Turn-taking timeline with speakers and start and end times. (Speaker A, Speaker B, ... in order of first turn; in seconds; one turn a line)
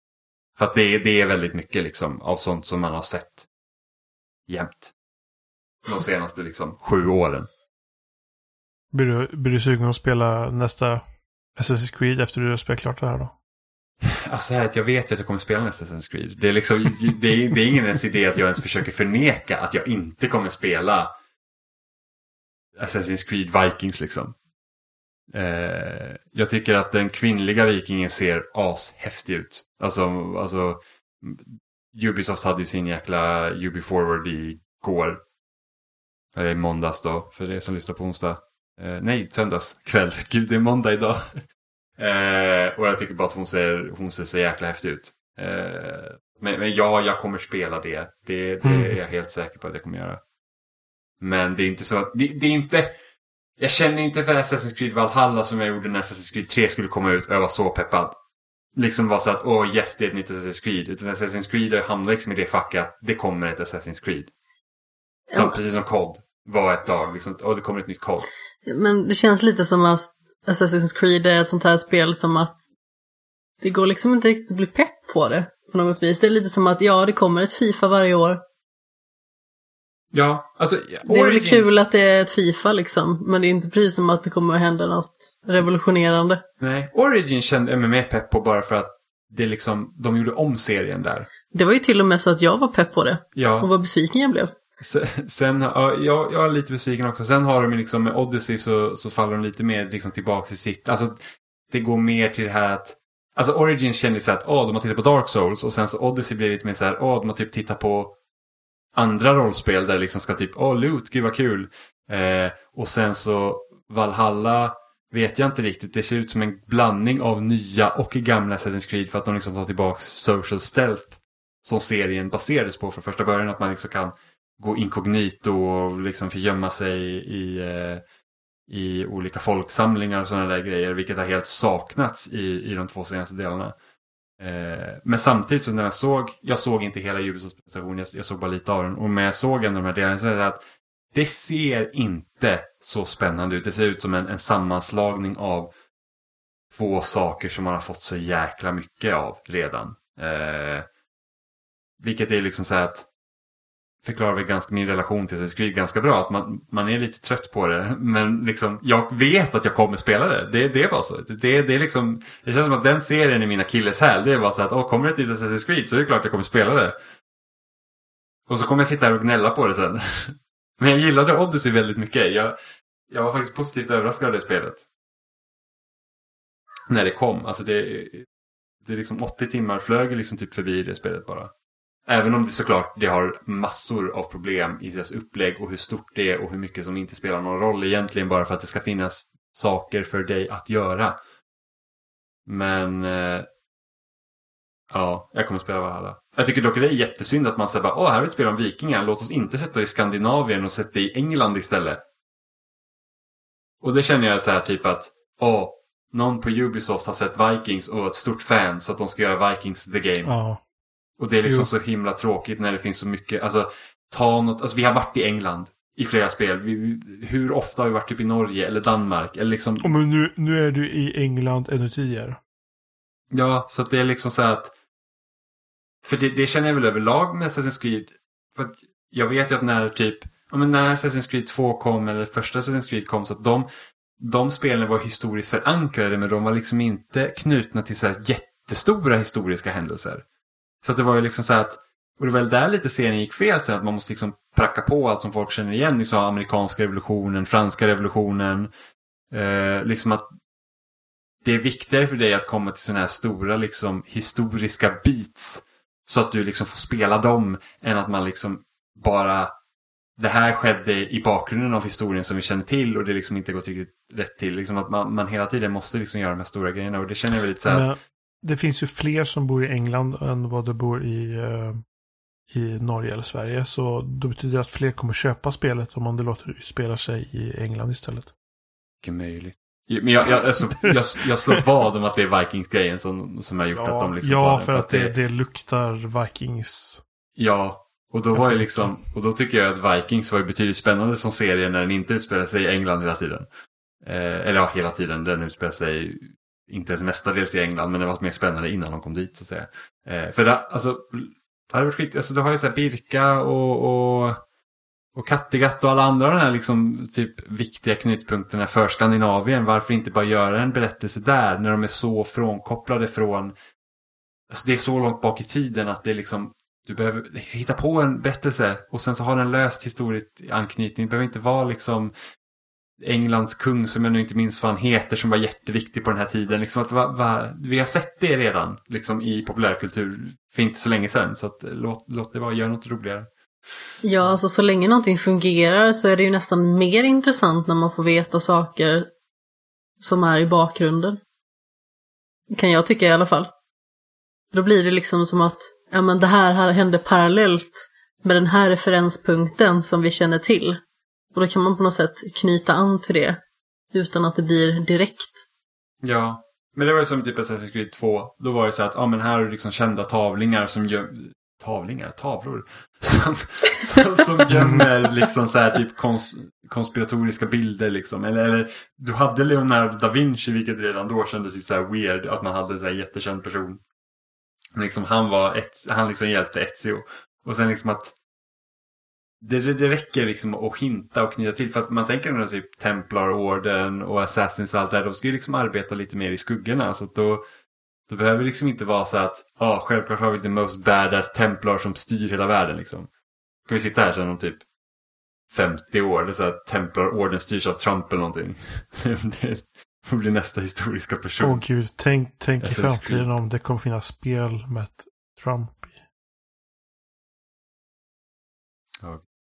Speaker A: 0.6-3.5
Speaker A: 4.5-4.9
Speaker A: 5.8-7.5
Speaker B: 8.9-13.3
Speaker A: 14.0-21.1
Speaker A: 22.8-24.3
Speaker A: 25.3-35.2
Speaker A: 36.3-41.4
Speaker A: 42.0-50.2
Speaker B: 48.6-48.9
Speaker A: 51.2-52.9
Speaker A: 53.6-58.1
Speaker A: 58.8-64.3
Speaker C: 65.3-65.6
Speaker A: 65.3-68.3
Speaker C: 68.7-72.5
Speaker C: 73.6-78.4
Speaker A: 80.1-81.8
Speaker C: 81.0-86.4
Speaker A: 86.6-91.3
Speaker C: 91.5-94.5
Speaker A: 93.3-93.7
Speaker A: 94.8-101.2
Speaker A: 101.7-108.1
Speaker A: 109.0-121.1
Speaker A: 121.6-128.0
Speaker A: 128.7-133.7
Speaker A: 134.4-140.6
Speaker A: 141.1-145.7
Speaker A: 146.7-150.8
Speaker A: 152.0-153.1
Speaker A: 154.0-166.9
Speaker A: 168.5-172.5
Speaker A: 173.1-174.8
Speaker A: 176.9-178.3
Speaker A: 178.8-181.5
Speaker A: 182.1-191.2
Speaker A: 192.4-193.5
Speaker A: 194.9-202.0
Speaker A: 203.8-210.3
Speaker B: 210.2-210.6
Speaker A: 211.2-219.8
Speaker B: 211.4-211.7
Speaker B: 219.8-222.4
Speaker A: 223.3-224.7
Speaker A: 226.0-233.7
Speaker A: 234.2-240.2
Speaker A: 240.8-248.7
Speaker A: 249.3-250.2
Speaker A: 251.4-259.5
Speaker A: 260.2-267.9
Speaker B: 267.6-271.8
Speaker B: 272.5-278.3
Speaker A: 279.0-285.1
Speaker B: 283.7-287.0
Speaker A: 287.4-293.5
Speaker B: 288.3-289.0
Speaker A: 294.0-304.4
Speaker A: 305.1-313.5
Speaker A: 314.5-322.1
Speaker A: 323.0-333.3
Speaker C: 334.0-339.1
Speaker C: 340.0-341.2
Speaker C: 342.5-343.5
Speaker C: 344.5-350.8
Speaker C: 351.3-353.4
Speaker C: 353.9-355.4
Speaker A: 356.0-373.8
Speaker B: 364.5-364.9
Speaker A: 374.8-378.1
Speaker A: 379.4-387.4
Speaker A: 388.1-393.1
Speaker A: 393.7-394.6
Speaker A: 395.5-401.6
Speaker B: 401.4-405.9
Speaker A: 402.6-403.3